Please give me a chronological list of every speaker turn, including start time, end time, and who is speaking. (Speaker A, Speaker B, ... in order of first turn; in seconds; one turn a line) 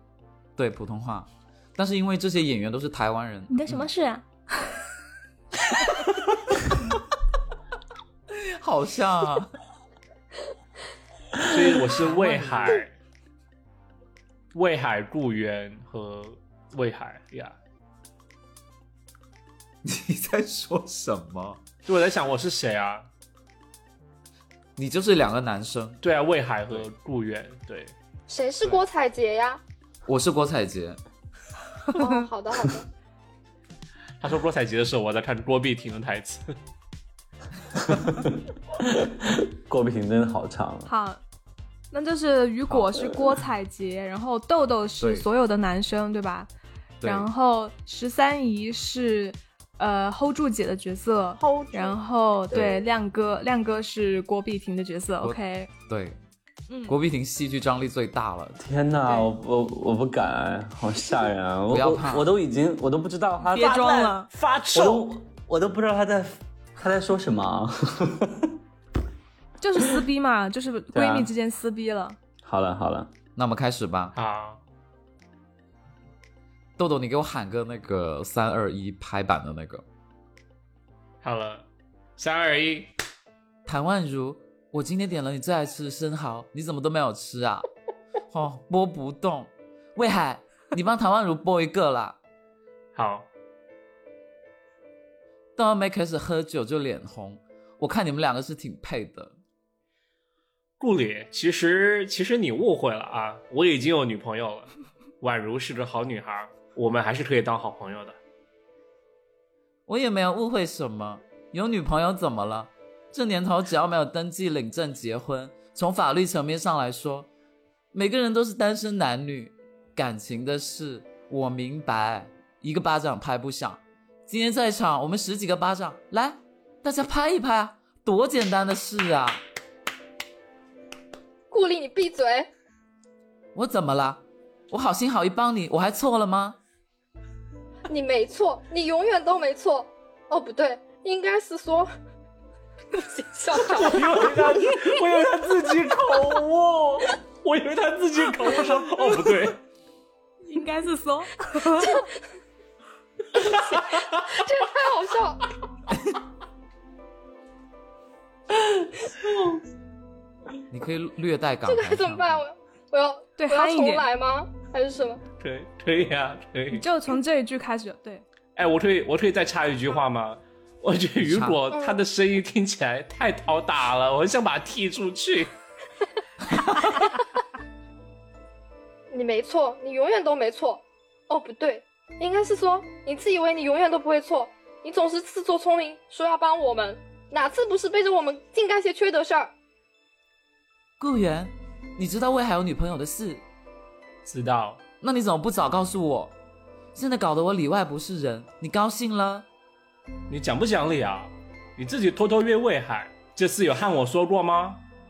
Speaker A: 0.6-3.9
Speaker B: 3.5-4.7
Speaker A: 8.3-9.5
Speaker C: 11.4-12.9
Speaker A: 12.0-12.8
Speaker C: 14.5-17.6
Speaker A: 19.8-21.6
Speaker C: 21.9-23.1
Speaker A: 24.8-26.0
Speaker C: 26.0-27.9
Speaker D: 28.3-29.6
Speaker A: 30.1-31.0
Speaker B: 31.9-32.2
Speaker D: 31.9-32.9
Speaker C: 34.2-36.5
Speaker E: 37.8-40.9
Speaker B: 40.9-41.2
Speaker B: 41.9-46.5
Speaker A: 45.0-45.3
Speaker B: 47.0-55.7
Speaker A: 47.0-47.3
Speaker D: 51.4-52.0
Speaker D: 52.5-52.9
Speaker A: 55.2-56.2
Speaker B: 56.7-57.0
Speaker A: 56.9-58.6
Speaker E: 58.6-63.9
Speaker A: 61.7-62.3
Speaker B: 63.5-64.3
Speaker C: 63.5-65.1
Speaker E: 64.7-68.5
Speaker B: 69.6-72.2
Speaker E: 70.9-71.3
Speaker E: 72.4-73.1
Speaker A: 73.4-74.2
Speaker C: 74.2-74.6
Speaker A: 76.8-79.8
Speaker C: 81.2-81.7
Speaker C: 82.2-82.9
Speaker A: 83.7-87.7
Speaker A: 88.3-92.2
Speaker C: 93.0-93.3
Speaker A: 95.6-99.3
Speaker C: 100.8-108.2
Speaker A: 109.9-117.3
Speaker A: 117.9-129.4
Speaker D: 131.5-132.5
Speaker A: 133.6-136.6
Speaker D: 137.9-141.9
Speaker D: 142.9-144.8
Speaker C: 143.7-149.6
Speaker B: 150.5-152.1
Speaker D: 151.7-152.1
Speaker D: 153.4-155.5
Speaker A: 160.7-162.4
Speaker D: 161.7-165.2
Speaker B: 163.4-164.1
Speaker C: 165.4-166.8
Speaker B: 166.7-168.2
Speaker C: 168.6-175.5
Speaker A: 171.2-171.6
Speaker D: 171.7-172.0
Speaker D: 179.1-189.5
Speaker A: 191.0-193.4
Speaker C: 194.2-194.8
Speaker A: 195.0-196.3
Speaker A: 196.9-199.5
Speaker C: 200.3-204.8